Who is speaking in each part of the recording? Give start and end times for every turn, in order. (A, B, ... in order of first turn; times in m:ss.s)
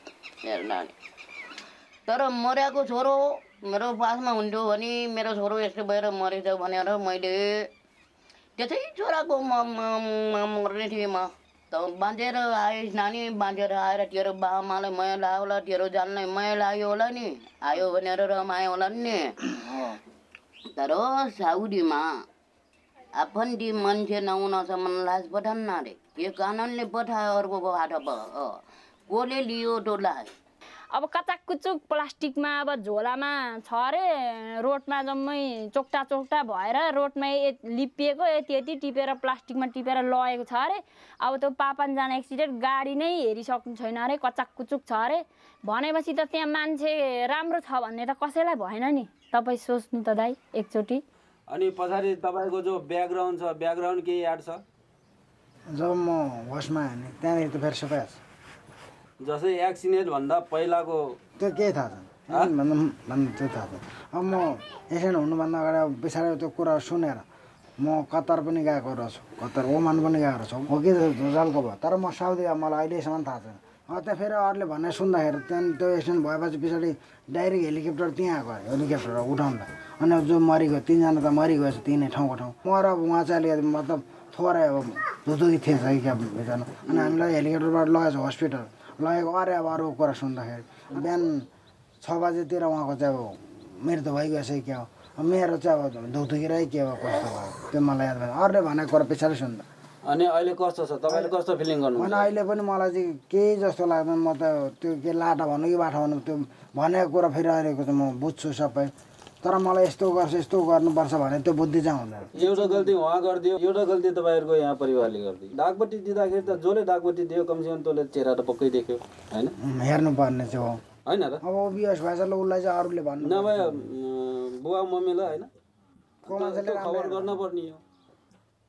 0:00.4-0:00.9 A
0:02.1-0:07.7 A
0:08.6-0:19.4 A
0:19.6-0:20.0 B
0:20.7-0:22.1 A
0:23.2-0:30.3 A
0:30.9-0:51.0 C
0:51.5-0:54.6 D
0:55.7-0:58.2 B
0:59.2-1:01.2 D
1:01.4-1:07.2 B
1:07.8-1:31.5 B
1:32.0-1:39.7 B
1:40.1-1:42.3 D
1:42.0-1:52.9 B
1:52.4-1:59.5 D
1:59.6-2:00.8 B
2:01.1-2:01.4 D
2:01.4-2:03.8 B
2:03.2-2:05.5 D
2:06.2-2:07.8 D
2:06.3-2:07.4 B